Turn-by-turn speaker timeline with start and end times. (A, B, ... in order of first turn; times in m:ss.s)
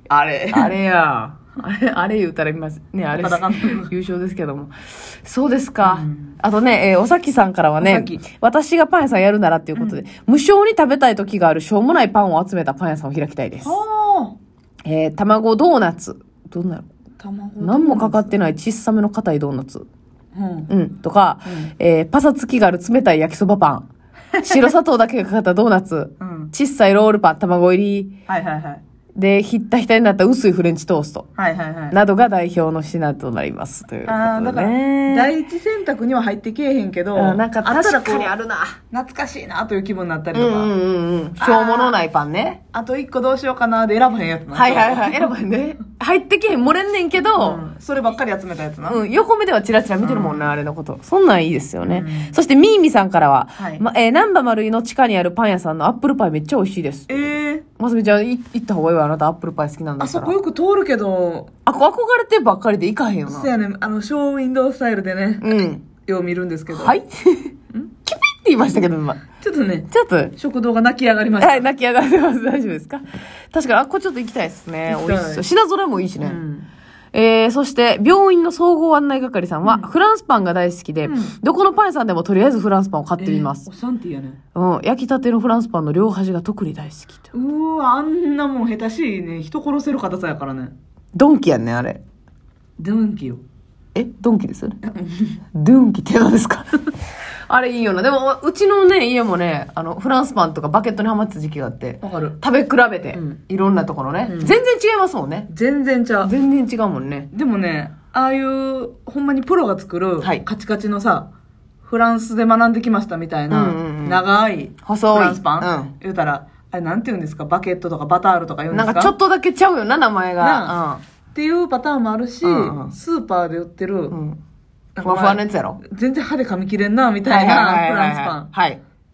0:00.1-0:00.7 A
0:00.5-0:13.8 B
0:03.1-0:03.9 A
0:05.8-0:06.4 A
0:07.8-0:08.2 A
0:09.7-0:10.0 A
0:13.6-0:14.4 A
0:14.8-0:16.9 B
0:17.2-0:18.3 A
0:17.6-0:19.8 B
0:20.3-0:20.7 A
0:20.7-0:23.9 B
0:21.4-0:21.7 A
0:24.3-0:24.7 A
0:24.4-0:28.1 B
0:26.2-0:26.5 A
0:28.3-0:28.8 A
0:29.1-0:31.2 B
0:31.4-0:32.0 A
0:31.9-0:35.3 B
0:34.0-0:38.3 A
0:37.1-0:38.8 B
0:38.9-0:40.7 A
0:40.3-0:42.6 B
0:41.4-0:42.0 A
0:42.7-0:45.3 A
0:44.5-0:47.6 B
0:47.4-0:49.0 A
0:48.8-1:00.3 B
0:50.0-0:50.6 A
0:51.8-0:52.4 A
0:53.6-0:53.8 A
0:57.1-0:57.6 A
1:00.0-1:01.5 A
1:01.6-1:03.5 B
1:03.3-1:07.0 A
1:05.4-1:05.8 B
1:06.7-1:07.5 B
1:08.0-1:09.2 B
1:09.4-1:11.7 A
1:09.9-1:10.3 B
1:11.4-1:16.4 B
1:14.9-1:15.4 A
1:16.2-1:16.7 A
1:17.1-1:23.7 B
1:19.6-1:19.9 A
1:21.0-1:21.3 A
1:23.2-1:24.4 A
1:24.5-1:27.3 B
1:27.3-1:30.7 A
1:31.1-1:32.0 B
1:32.8-1:33.4 A
1:33.9-1:34.9 B
1:35.0-1:35.3 A
1:35.5-1:36.9 B
1:37.5-1:45.5 B
1:42.0-1:42.4 A
1:44.2-1:44.6 A
1:45.5-1:46.3 A
1:46.2-1:47.3 B
1:47.3-1:51.3 A
1:51.8-1:59.1 A
1:53.5-1:54.2 B
1:54.8-1:55.9 B
1:58.7-2:01.0 B
2:00.4-2:00.7 A
2:01.3-2:04.2 A
2:02.4-2:02.9 B
2:04.1-2:04.4 B
2:05.0-2:08.5 A
2:05.0-2:05.8 B
2:07.3-2:08.8 B